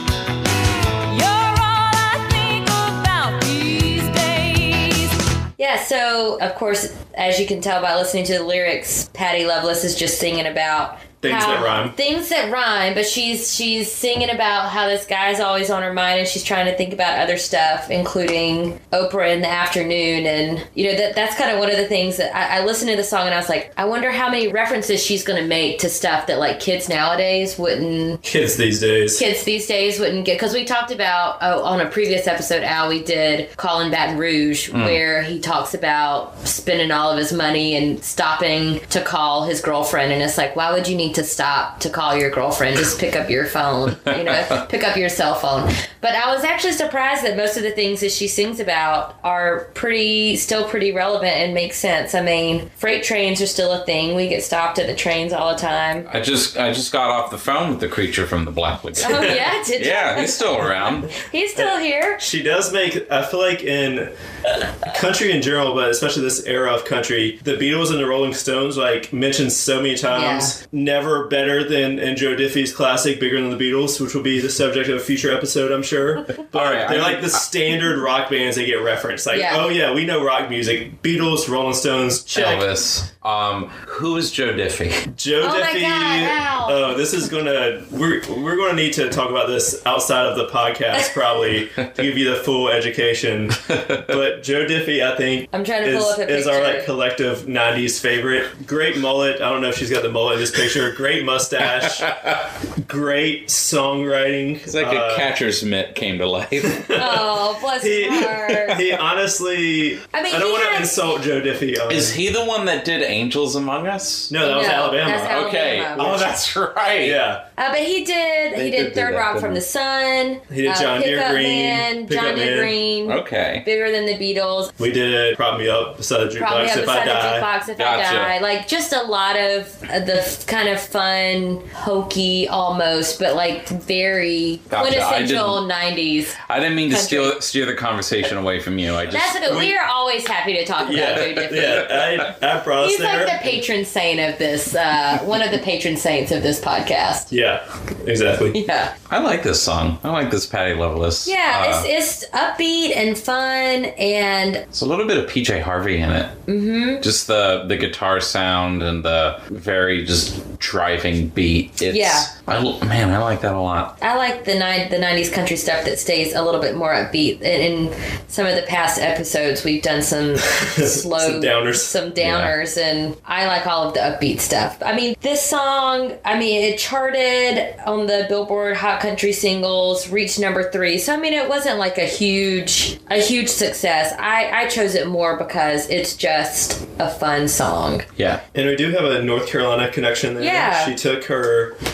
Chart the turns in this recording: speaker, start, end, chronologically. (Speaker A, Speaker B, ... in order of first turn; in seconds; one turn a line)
Speaker A: 1.0-5.2
Speaker B: 5.6-28.2
Speaker C: 11.2-11.9
Speaker C: 28.2-29.2
Speaker B: 29.1-56.1
Speaker D: 34.7-35.0
Speaker D: 56.1-61.1
Speaker B: 59.0-62.2
Speaker C: 59.0-59.4
Speaker C: 62.2-82.6
Speaker B: 70.1-70.5
Speaker D: 76.5-77.4
Speaker B: 79.3-79.7
Speaker D: 82.3-85.1
Speaker C: 85.1-102.2
Speaker B: 85.4-87.0
Speaker D: 93.7-94.0
Speaker B: 95.5-96.9
Speaker D: 102.0-102.4
Speaker C: 102.8-105.3
Speaker D: 104.7-106.9
Speaker C: 106.6-107.2
Speaker B: 106.9-108.8
Speaker C: 107.8-112.2
Speaker D: 108.5-108.8
Speaker B: 110.1-111.1
Speaker D: 111.9-114.3
Speaker C: 114.3-116.3
Speaker B: 114.4-116.2
Speaker D: 115.3-117.2
Speaker C: 117.0-117.4
Speaker B: 117.6-124.7
Speaker D: 118.5-119.6
Speaker C: 120.5-122.8
Speaker D: 123.0-123.7
Speaker C: 124.8-127.5
Speaker B: 126.4-137.3
Speaker D: 127.7-128.3
Speaker D: 134.7-135.6
Speaker D: 136.5-139.7
Speaker B: 139.1-142.0
Speaker C: 139.5-139.7
Speaker C: 140.8-143.6
Speaker B: 142.8-147.3
Speaker C: 147.3-148.6
Speaker B: 148.5-148.9
Speaker D: 149.1-151.9
Speaker B: 151.2-154.6
Speaker D: 154.7-156.4
Speaker B: 156.5-157.0
Speaker D: 157.0-164.0
Speaker B: 161.9-162.3
Speaker B: 164.0-188.1
Speaker C: 170.5-171.9
Speaker D: 172.2-172.5
Speaker D: 188.2-188.4
Speaker C: 188.5-191.8
Speaker B: 190.4-190.9